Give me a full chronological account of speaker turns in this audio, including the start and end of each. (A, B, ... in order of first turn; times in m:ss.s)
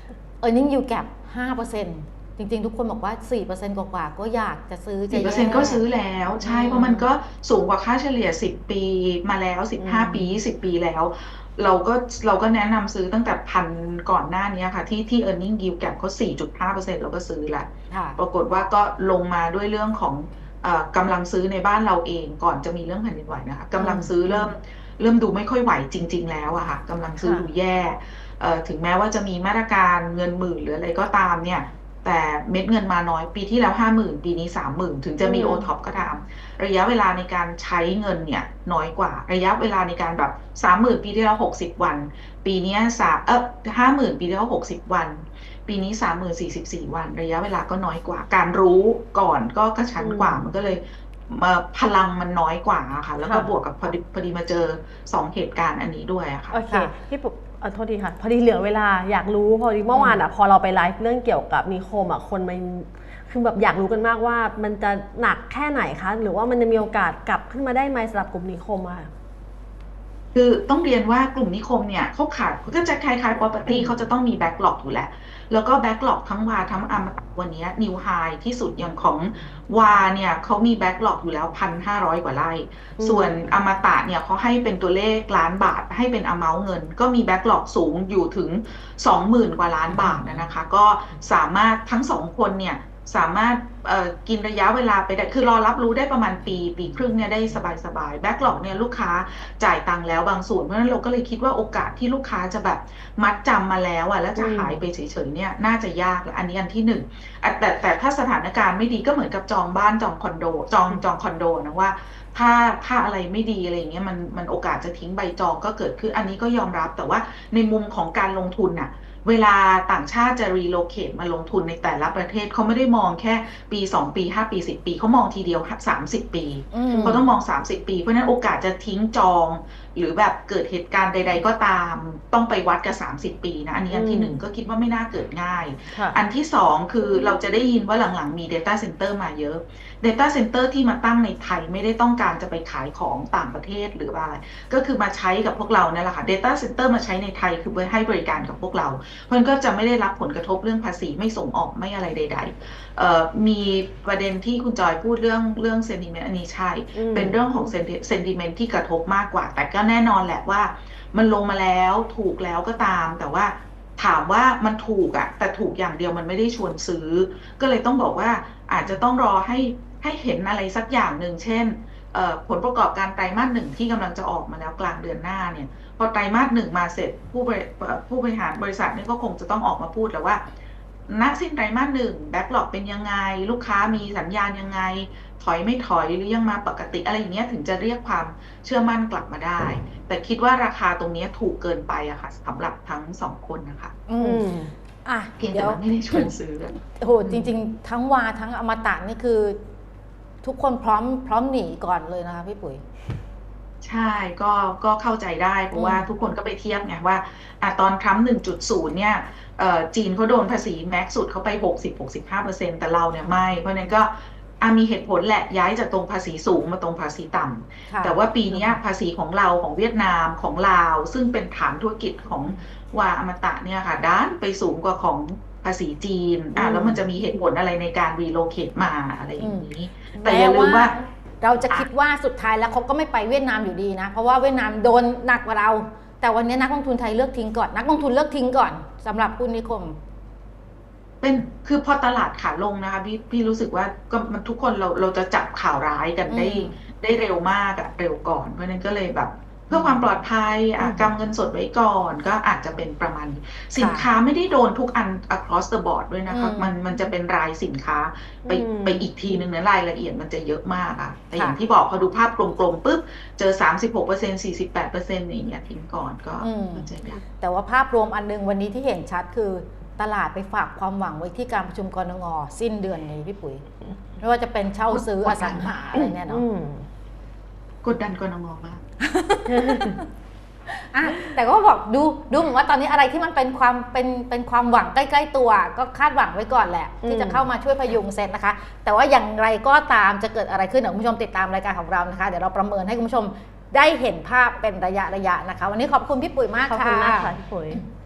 0:00.4-0:05.8 A
0:05.1-0:56.6 B
0:06.4-0:07.1 C
0:09.8-0:10.4 C
0:17.9-0:18.2 A
0:23.8-0:24.5 A
0:27.2-0:27.5 A
0:35.2-0:35.7 C
0:50.0-0:50.5 C
0:53.2-0:53.5 C
0:56.5-1:09.1 C
0:59.9-1:00.2 A
1:10.3-3:00.4 B
1:23.0-1:23.3 C
1:44.4-1:44.8 C
2:06.7-2:07.2 A
2:06.9-2:07.3 C
2:13.9-2:14.4 C
2:15.9-2:16.2 C
2:36.9-2:37.4 C
3:01.1-3:14.0 B
3:14.1-3:14.4 A
3:14.2-3:14.7 C
3:15.0-3:16.3 A
3:15.4-3:17.5 B
3:17.0-3:19.6 A
3:20.4-3:22.8 A
3:23.8-3:50.9 B
3:25.7-3:26.1 A
3:37.9-3:38.2 A
3:46.6-3:47.0 A
3:49.4-4:00.0 A
4:01.2-4:27.2 B
4:06.3-4:06.8 A
4:13.8-4:14.1 A
4:16.3-4:16.8 A
4:18.4-4:19.1 C
4:26.4-4:26.9 A
4:27.4-4:33.6 A
4:34.2-4:36.4 A
4:34.9-4:35.7 B
4:35.9-4:36.8 C
4:37.8-4:38.8 B
4:39.0-4:40.0 A
4:39.4-4:40.0 C
4:40.8-4:57.3 A
4:47.0-4:47.4 C
4:56.7-4:57.8 C